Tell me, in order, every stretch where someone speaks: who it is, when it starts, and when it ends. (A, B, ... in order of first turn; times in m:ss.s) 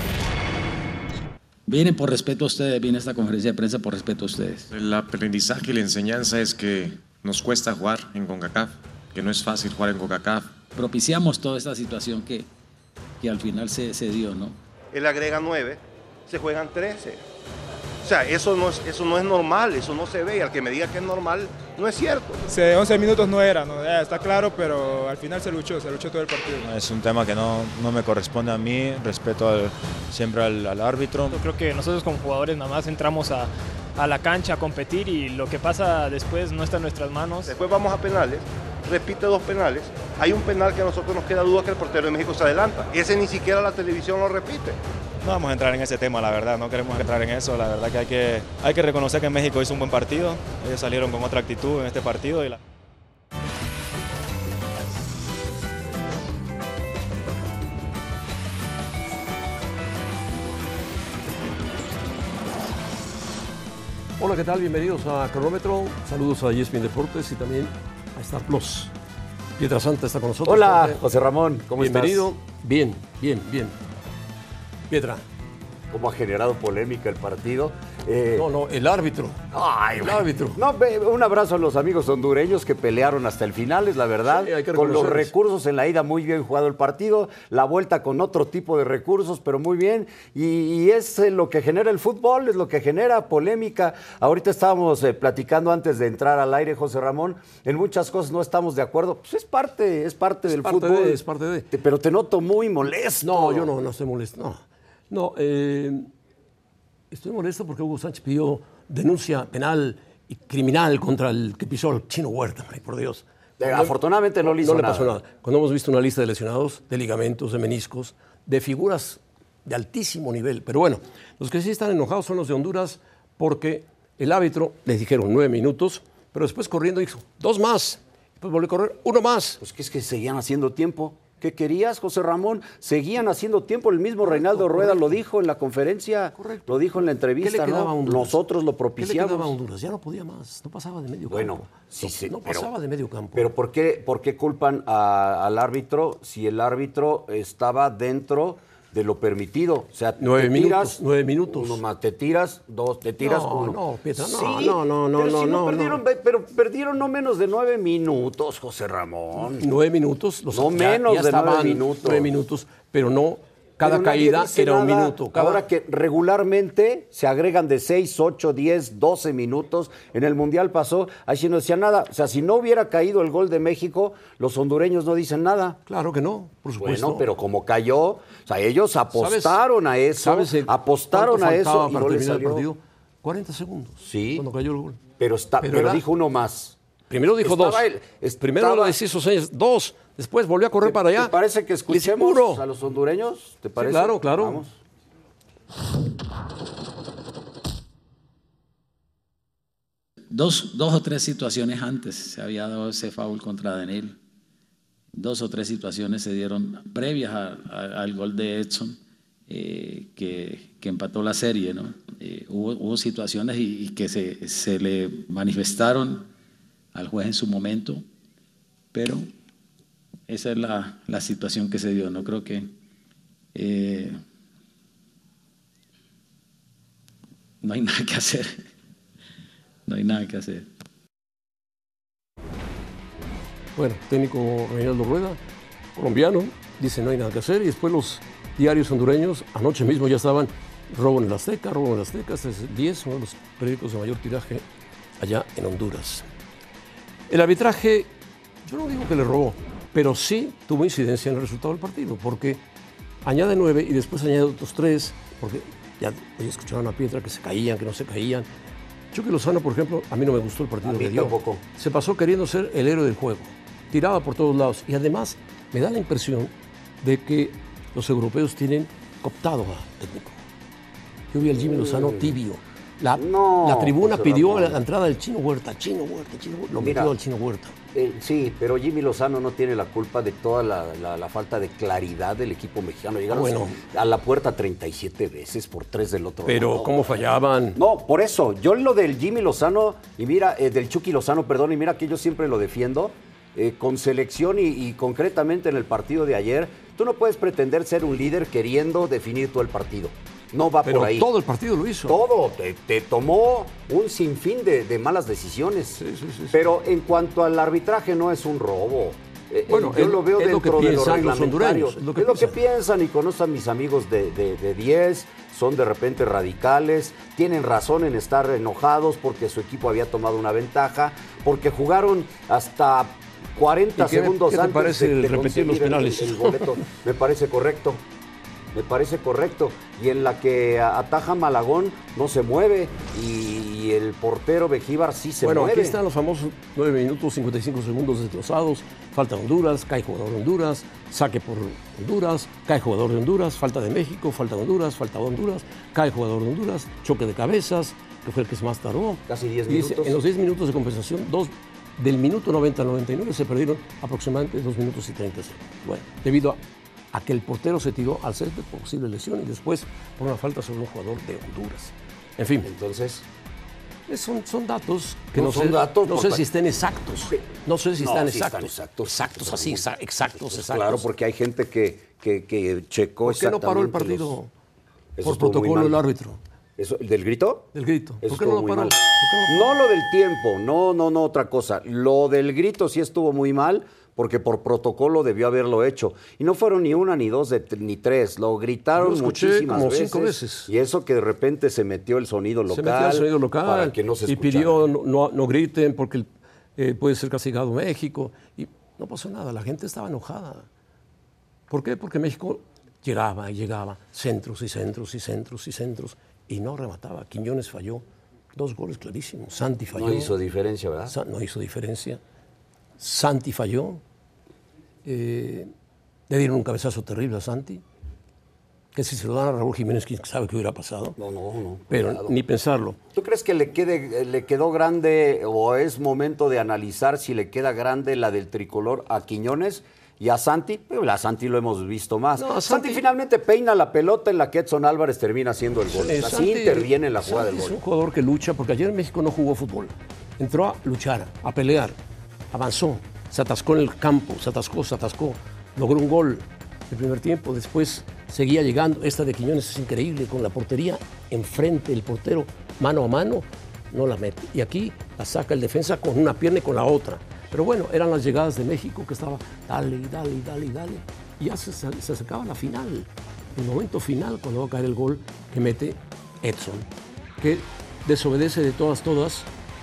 0:01.7-0:04.7 A
0:04.7-0:10.5 B
0:10.7-0:12.5 A
0:13.2-0:14.6 A
0:14.9-0:17.2 C
0:18.0-0:22.4 C
0:22.5-0:26.7 D
0:26.6-0:31.4 E
0:31.3-0:37.5 F
0:37.4-0:44.8 C
0:45.2-0:52.6 E
1:04.2-1:08.9 G
1:09.6-1:11.0 G
1:10.4-1:12.3 H
1:11.8-1:13.8 G
1:14.9-1:15.2 G
1:15.9-1:18.4 H
1:18.4-1:19.4 G
1:19.5-1:43.7 H
1:20.0-1:20.6 G
1:24.3-1:25.3 G
1:40.5-1:41.7 G
1:43.2-1:46.1 G
1:47.1-2:09.6 G
1:53.6-1:55.2 H
2:09.6-2:19.6 H
2:14.2-2:15.2 G
2:16.4-2:18.3 G
2:19.0-2:23.5 G
2:21.3-2:22.7 H
2:23.3-2:39.6 H
2:30.2-2:31.8 G
2:33.2-2:36.0 G
2:39.5-2:45.6 G
2:40.5-2:42.3 H
2:43.8-2:55.8 H
2:55.8-2:57.2 G
2:56.8-3:02.6 H
2:59.1-2:59.6 G
3:00.2-3:05.0 G
3:04.0-3:04.4 H
3:05.2-3:06.8 H
3:05.6-3:06.0 G
3:07.1-3:07.8 G
3:07.4-3:09.0 H
3:08.4-3:11.3 G
3:10.8-3:14.8 H
3:11.9-3:12.6 G
3:13.8-3:14.6 G
3:20.3-3:24.2 A
3:25.1-3:36.3 A
3:36.9-3:38.0 A
3:38.9-3:39.3 A
3:40.3-3:42.7 A
3:43.5-3:44.2 A
3:47.6-3:48.5 A
3:49.9-3:50.6 A
3:53.8-3:55.4 G
3:56.0-4:04.6 G
4:05.2-4:06.3 G
4:07.3-4:08.1 G
4:08.6-4:12.6 G
4:13.2-4:18.5 G
4:19.1-4:30.4 G
4:20.8-4:21.6 H
4:31.3-4:37.7 G
4:31.6-4:32.3 H
4:33.2-4:34.8 H
4:36.8-4:37.1 H
4:37.9-4:47.2 H
4:43.3-4:43.8 G
4:46.5-4:47.8 G
4:47.8-5:01.3 H
5:00.8-5:02.2 G
5:02.1-5:28.0 H
5:06.0-5:06.6 G
5:09.7-5:12.6 G
5:24.0-5:26.8 G
5:28.7-5:36.0 H
5:35.4-5:56.6 G
5:49.3-5:50.2 H
5:57.1-6:02.7 G
6:02.6-6:03.2 H
6:04.1-6:11.1 G
6:05.3-6:06.4 H
6:08.0-6:09.8 H
6:10.4-6:14.3 H
6:13.2-6:14.5 G
6:15.2-6:16.0 H
6:15.2-6:16.4 G
6:16.8-6:17.7 H
6:17.7-6:19.7 G
6:18.2-6:34.9 H
6:29.0-6:30.7 G
6:32.7-6:40.7 G
6:41.7-6:48.0 G
6:48.5-6:50.3 G
6:49.9-6:51.1 H
6:51.1-6:52.2 G
6:53.0-6:54.0 G
6:55.0-6:55.7 G
6:56.3-6:57.8 G
6:58.9-7:01.2 G
7:01.2-7:02.3 H
7:01.9-7:03.0 G
7:03.1-7:17.8 H
7:12.4-7:13.0 G
7:15.9-7:22.0 G
7:22.5-7:46.9 G
7:47.4-7:49.5 G